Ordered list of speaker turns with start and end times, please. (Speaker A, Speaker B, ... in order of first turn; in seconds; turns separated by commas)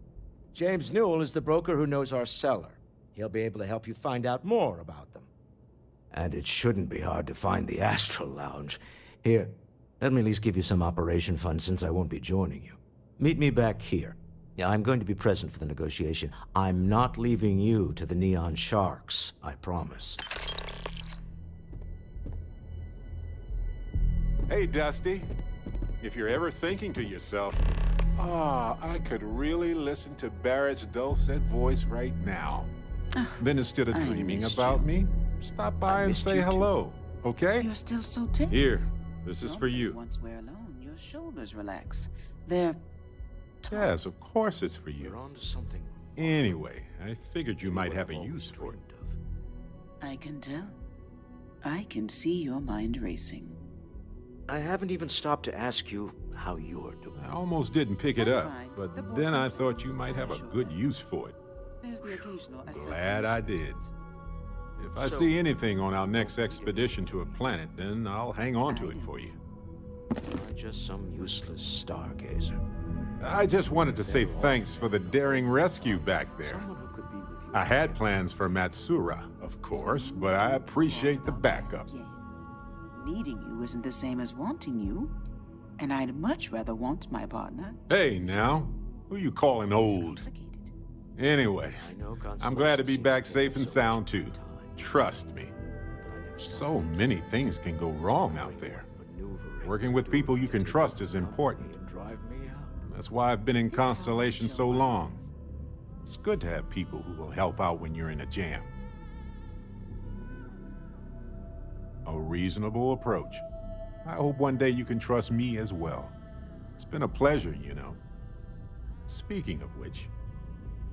Speaker A: 0.5-5.3, Speaker A: 6.1-20.2, Speaker B: 24.5-25.3, Speaker B: 26.0-27.6, Speaker B: 28.2-32.7, Speaker C: 33.1-34.9, Speaker B: 33.4-37.7, Speaker A: 35.9-36.7, Speaker C: 37.6-42.8, Speaker B: 38.5-40.0, Speaker C: 43.6-44.0, Speaker B: 43.7-45.2, Speaker A: 45.0-46.6, Speaker B: 46.2-48.8, Speaker A: 47.6-49.2, Speaker C: 50.0-50.8, Speaker C: 51.6-53.6, Speaker A: 54.5-57.2, Speaker B: 57.2-61.4, Speaker C: 58.1-60.8, Speaker C: 61.8-63.9, Speaker B: 62.1-63.8, Speaker B: 64.8-69.3, Speaker A: 65.0-67.5, Speaker C: 68.7-69.2, Speaker A: 70.3-72.6, Speaker B: 73.2-76.7, Speaker A: 73.8-78.2, Speaker B: 77.5-81.9, Speaker C: 79.7-82.2, Speaker C: 82.9-85.1, Speaker C: 85.8-87.8, Speaker B: 87.9-90.2, Speaker C: 89.7-90.7, Speaker B: 91.2-91.8, Speaker A: 91.8-94.8, Speaker B: 92.4-95.5, Speaker A: 96.0-97.3, Speaker B: 96.4-98.8, Speaker A: 98.2-102.8, Speaker B: 99.6-101.7, Speaker B: 102.8-105.2, Speaker C: 103.7-105.1, Speaker B: 106.0-108.7, Speaker B: 112.0-113.4, Speaker B: 114.0-116.1, Speaker B: 116.8-118.0, Speaker B: 119.1-120.1